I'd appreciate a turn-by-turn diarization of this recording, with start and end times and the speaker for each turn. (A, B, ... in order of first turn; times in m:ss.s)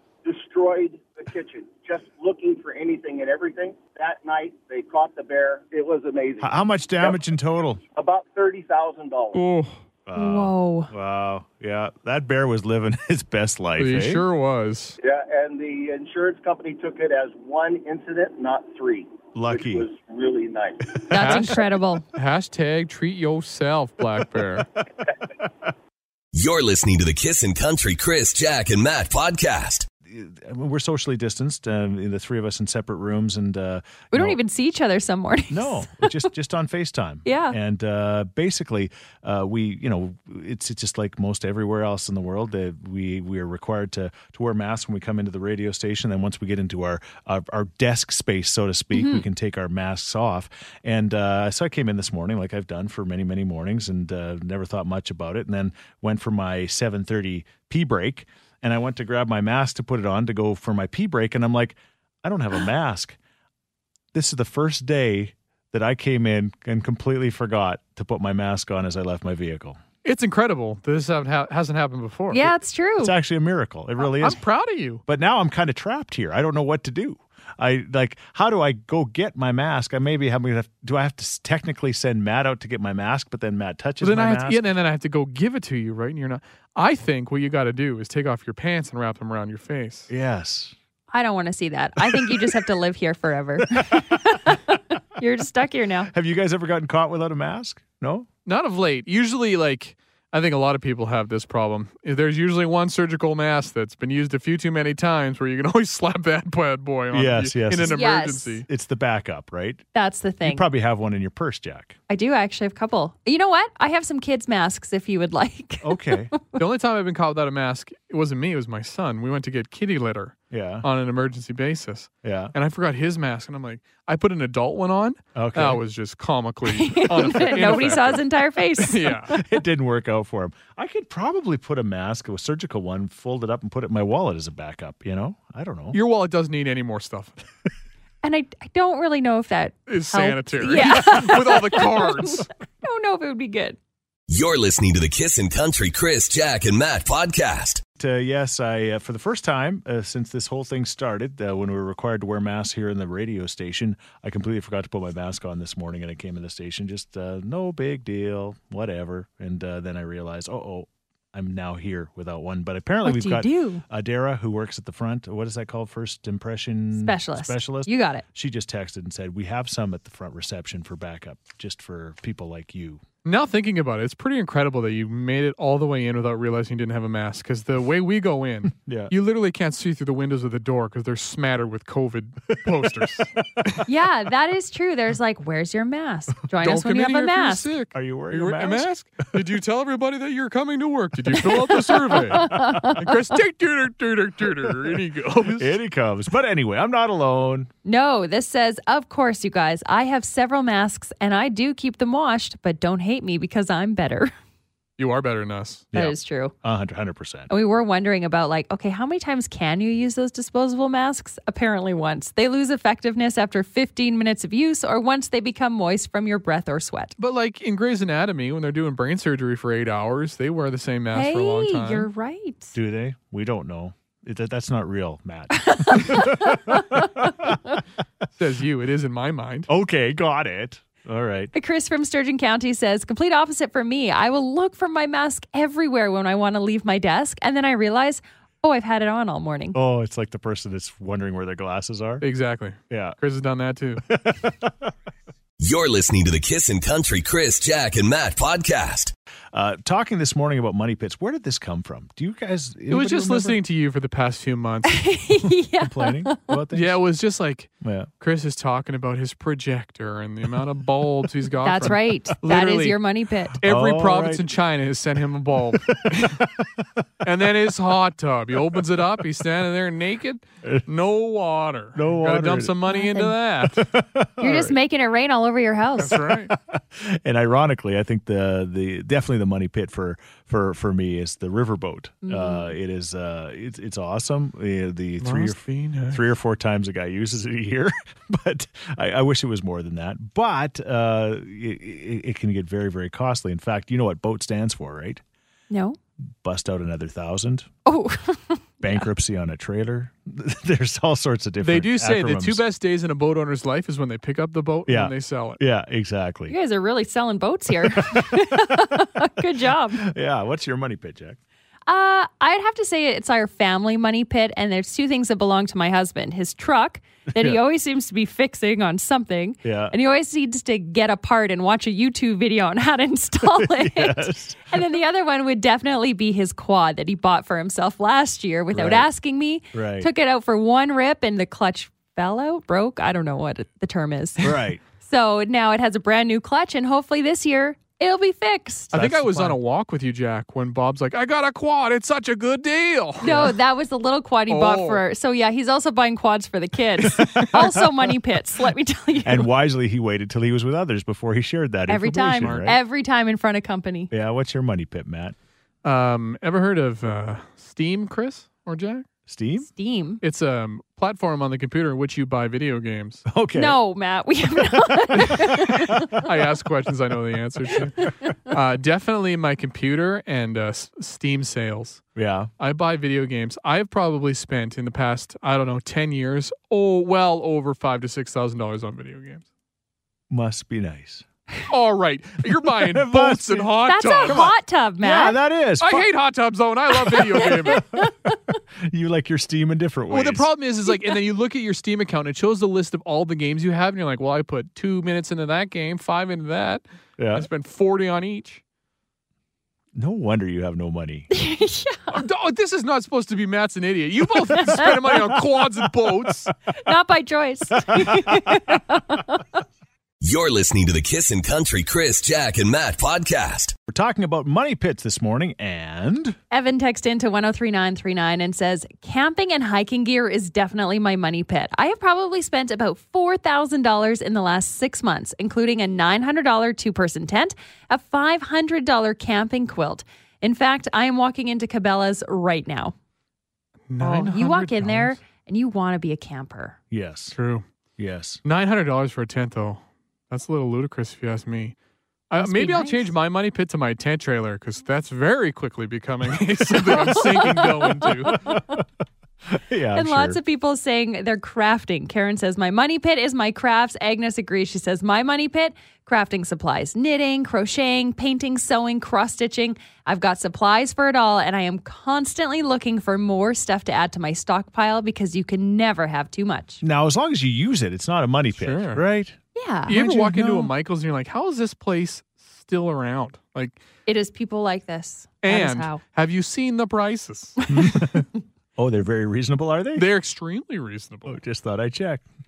0:00.2-0:07.2 A
0:06.4-0:07.8 B
0:08.0-0:09.4 A
0:09.3-0:09.8 C
0:10.1-0:14.2 B
0:10.2-0:10.9 D
0:13.8-0:15.0 C
0:15.0-0:21.0 A
0:19.4-0:19.9 B
0:21.1-0:22.0 D
0:21.2-0:21.6 C
0:22.1-0:24.7 C
0:26.3-0:29.9 E
0:30.1-0:34.4 B
0:34.1-0:36.2 D
0:35.5-1:03.2 B
0:37.2-0:37.6 D
0:48.9-0:49.2 D
1:04.1-1:09.8 B
1:10.0-1:12.5 C
1:12.3-1:13.1 D
1:13.0-1:14.4 B
1:14.0-1:15.0 C
1:15.1-1:24.7 B
1:24.0-1:30.1 C
1:30.1-1:30.7 B
1:31.1-1:36.1 D
1:32.0-1:32.6 B
1:33.8-1:34.2 B
1:36.1-1:38.3 B
1:38.5-1:48.7 C
1:47.1-1:48.0 B
1:47.8-1:48.6 D
1:48.7-1:49.8 B
1:49.9-1:50.6 D
1:50.4-1:52.0 B
1:52.1-1:56.6 D
1:55.8-1:56.3 B
1:56.6-2:08.2 C
2:00.5-2:00.9 B
2:02.2-2:02.5 B
2:05.4-2:05.8 B
2:06.7-2:09.2 D
2:08.8-2:09.3 C
2:09.3-2:16.0 B
2:15.9-2:17.4 C
2:18.2-2:23.8 D
2:19.9-2:22.5 C
2:24.3-2:27.8 E
2:28.0-2:53.0 B
2:43.0-2:43.8 D
2:47.0-2:48.2 D
2:53.2-3:03.8 C
2:58.8-2:59.1 B
3:03.9-3:07.7 D
3:06.6-3:15.7 C
3:07.9-3:08.9 B
3:12.2-3:13.0 B
3:12.2-3:13.0 D
3:14.7-3:15.0 B
3:15.5-3:17.7 B
3:17.8-3:24.3 D
3:25.0-3:25.9 C
3:25.9-3:27.5 B
3:25.9-3:26.5 D
3:27.5-3:37.1 D
3:37.2-3:42.1 C
3:41.1-3:42.8 D
3:42.7-3:47.6 B
3:45.5-3:47.1 D
3:48.4-3:49.7 C
3:49.7-3:51.5 B
3:51.5-3:59.8 D
3:59.7-4:02.3 B
4:02.2-4:04.0 C
4:02.9-4:03.2 B
4:04.1-4:04.9 B
4:05.6-4:09.1 E
4:09.5-4:13.6 B
4:12.9-4:15.1 C
4:14.9-4:16.5 D
4:15.4-4:17.0 B
4:16.7-4:23.0 C
4:17.8-4:18.1 B
4:21.6-4:23.6 D
4:23.6-4:26.4 C
4:23.6-4:24.5 B
4:25.7-4:26.7 B
4:27.2-4:33.9 C
4:32.0-4:32.8 B
4:32.9-4:33.3 D
4:33.6-4:34.8 B
4:34.4-4:36.2 D
4:36.0-4:36.5 C
4:36.1-4:55.2 B
4:42.2-4:42.8 D
4:45.2-4:46.2 C
4:55.7-4:56.0 D
4:56.4-4:57.7 B
4:57.9-4:59.1 D
4:58.8-5:02.6 B
5:01.6-5:05.6 C
5:04.9-5:06.6 B
5:06.5-5:10.0 D
5:07.8-5:09.0 B
5:09.9-5:11.4 B
5:11.9-5:38.9 D
5:19.6-5:20.0 B
5:23.5-5:24.8 B
5:28.7-5:29.1 B
5:29.7-5:30.1 B
5:34.4-5:34.8 B
5:38.9-5:43.5 C
5:38.9-5:39.6 B
5:43.2-5:49.5 D
5:43.2-5:43.6 B
5:44.5-5:45.0 C
5:47.3-5:47.9 B
5:49.2-5:52.8 B
5:51.9-5:54.1 D
5:52.4-5:52.7 C
5:54.1-5:55.4 B
5:55.8-5:59.1 C
5:59.3-5:59.7 B
5:59.6-6:00.2 D
6:00.2-6:03.2 C
6:03.3-6:03.8 B
6:03.6-6:06.1 D
6:05.2-6:05.5 C
6:06.1-6:12.0 C
6:12.2-6:12.5 B
6:12.6-6:19.4 C
6:20.3-6:21.2 B
6:21.7-6:24.5 C
6:22.7-6:23.7 B
6:23.8-6:25.4 D
6:24.2-6:26.1 B
6:25.8-6:27.9 C
6:27.4-6:28.1 B
6:27.4-6:28.5 D
6:28.9-6:30.5 B
6:30.1-6:38.6 C
6:37.2-6:37.5 B
6:40.0-6:41.3 B
6:41.3-6:42.2 D
6:42.1-6:46.5 C
6:46.8-6:49.6 D
6:47.9-6:48.7 B
6:50.2-6:53.8 E
6:53.9-6:56.4 B
6:56.5-7:12.9 D
7:13.9-7:15.2 C
7:14.0-7:16.8 D
7:16.9-7:17.4 B
7:17.3-7:17.6 C
7:18.0-7:18.4 B
7:18.4-7:21.8 C
7:22.3-7:28.4 C
7:22.4-7:23.1 D
7:26.9-7:27.2 B
7:26.9-7:28.8 D
7:27.9-7:28.8 B
7:29.5-7:30.4 B
7:30.0-7:46.8 D
7:46.8-7:50.7 B
7:48.6-7:49.0 C
7:49.6-7:49.9 D
7:49.9-7:53.8 C
7:54.1-7:56.0 D
7:55.4-7:57.6 C
7:57.7-8:00.1 B
8:00.0-8:01.4 C
8:01.3-8:02.3 B